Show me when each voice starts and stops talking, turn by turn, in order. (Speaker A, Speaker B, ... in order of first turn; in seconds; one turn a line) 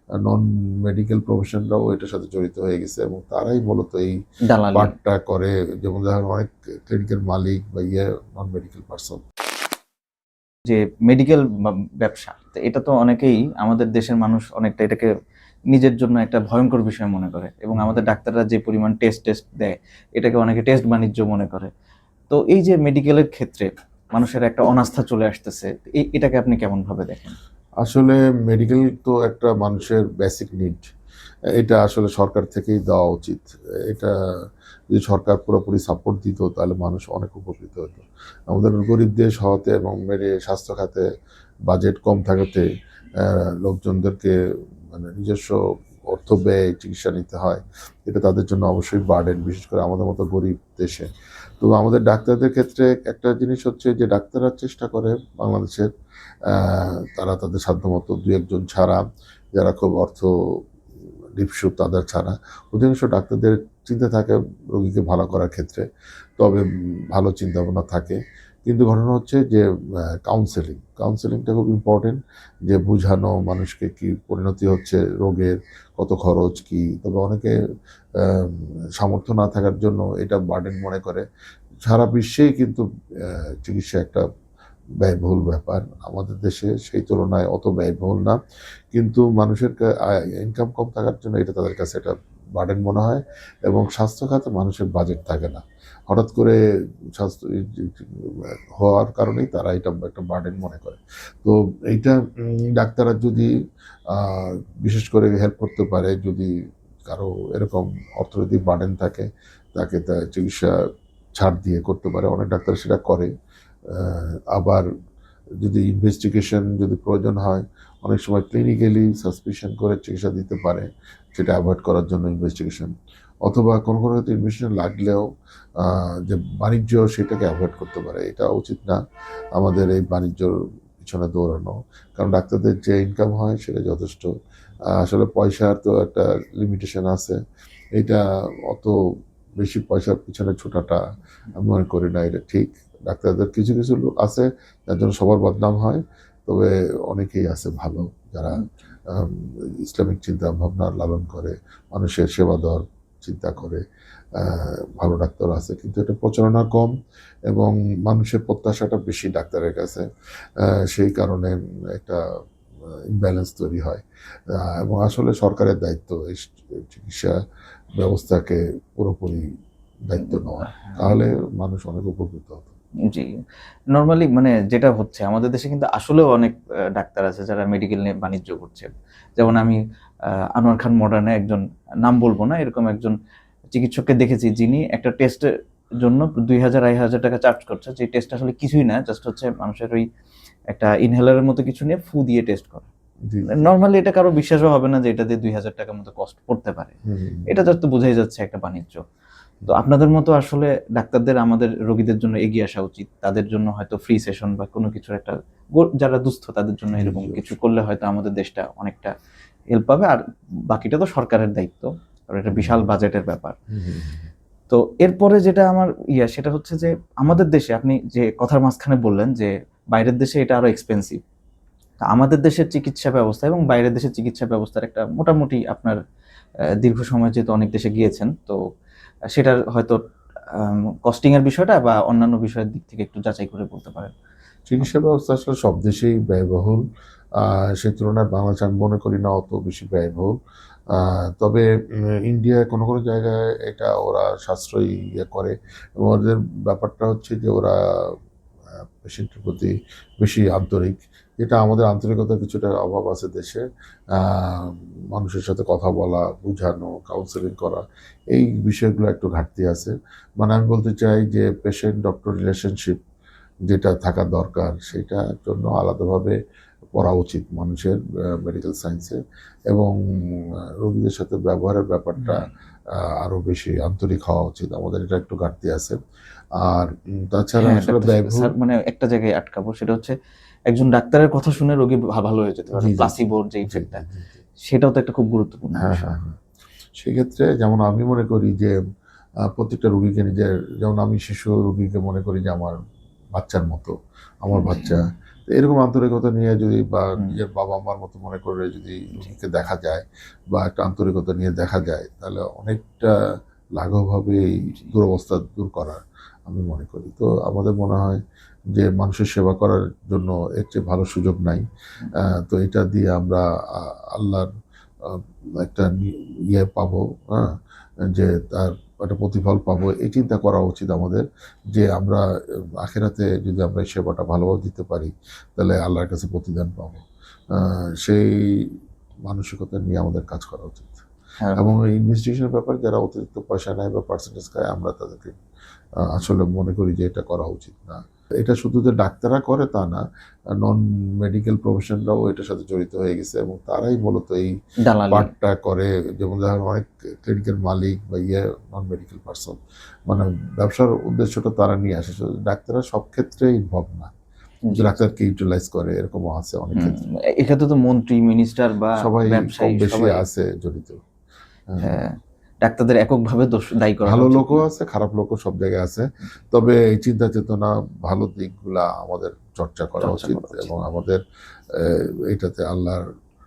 Speaker A: 0.2-4.1
Speaker B: 4.5-4.9
Speaker A: 4.7-9.2
Speaker B: 10.7-11.5
Speaker B: 12.0-15.1
Speaker B: 15.7-21.7
Speaker B: 22.3-27.4
Speaker A: 27.8-30.9
Speaker A: 31.6-34.1
Speaker A: 34.9-41.0
Speaker A: 41.7-42.7
Speaker A: 43.2-44.3
Speaker A: 44.9-45.6
Speaker A: 46.1-51.1
Speaker A: 51.6-55.9
Speaker A: 56.5-59.0
Speaker A: 59.5-60.3
Speaker A: 61.4-65.8
Speaker A: 66.4-69.6
Speaker A: 70.3-77.5
Speaker A: 78.2-81.2
Speaker A: 81.9-84.2
Speaker A: 85.0-88.4
Speaker A: 88.9-96.6
Speaker A: 97.2-102.2
Speaker A: 102.7-103.5
Speaker A: 104.1-106.5
Speaker A: 107.1-110.7
Speaker A: 111.4-113.3
Speaker A: 113.9-114.8
Speaker A: 115.6-122.9
Speaker A: 123.5-125.2
Speaker A: 125.8-129.0
Speaker A: 129.6-134.3
Speaker A: 134.9-137.4
Speaker A: 137.9-138.9
Speaker A: 139.6-141.0
Speaker A: 141.6-153.8
Speaker A: 154.4-156.9
Speaker A: 157.5-160.1
Speaker A: 160.6-162.2
Speaker A: 163.2-167.4
Speaker A: 168.0-169.4
Speaker A: 170.1-172.8
Speaker B: 170.2-171.2
Speaker B: 173.1-173.3
Speaker B: 173.9-179.8
Speaker B: 180.6-183.2
Speaker B: 183.7-185.5
Speaker B: 186.0-190.1
Speaker B: 190.7-192.9
Speaker A: 193.3-193.7
Speaker B: 193.6-196.9
Speaker A: 197.1-197.5
Speaker B: 197.5-199.0
Speaker B: 199.7-209.1
Speaker A: 207.0-207.5
Speaker B: 209.7-213.6
Speaker A: 212.5-212.9
Speaker A: 213.7-214.3
Speaker B: 214.7-221.2
Speaker B: 222.1-226.0
Speaker B: 226.8-228.6
Speaker B: 229.4-230.0
Speaker B: 230.5-234.1
Speaker A: 234.7-236.8
Speaker A: 237.4-240.3
Speaker A: 240.9-241.6
Speaker A: 242.3-247.8
Speaker A: 249.0-253.6
Speaker A: 254.1-263.0
Speaker A: 263.7-266.4
Speaker A: 266.9-269.2
Speaker A: 269.7-272.5
Speaker B: 272.2-272.5
Speaker A: 273.2-276.0
Speaker A: 276.6-278.5
Speaker B: 277.6-280.1
Speaker B: 280.7-284.0
Speaker A: 282.8-283.1
Speaker A: 283.7-284.4
Speaker B: 284.7-286.1
Speaker A: 285.8-286.4
Speaker A: 287.0-288.7
Speaker A: 289.5-292.8
Speaker A: 293.4-303.1
Speaker B: 294.5-295.0
Speaker A: 303.8-308.2
Speaker A: 308.7-311.6
Speaker A: 312.2-314.5
Speaker A: 315.0-317.5
Speaker A: 318.1-322.2
Speaker A: 322.8-328.7
Speaker A: 329.3-331.0
Speaker A: 331.6-335.4
Speaker A: 336.1-340.0
Speaker A: 340.6-344.5
Speaker B: 344.8-345.3
Speaker A: 345.1-354.1
Speaker B: 354.7-355.0
Speaker A: 354.7-357.0
Speaker B: 356.8-360.2
Speaker A: 359.0-361.0
Speaker A: 361.7-362.0
Speaker B: 361.8-364.6
Speaker A: 364.1-371.2
Speaker B: 370.0-370.7
Speaker A: 371.8-373.0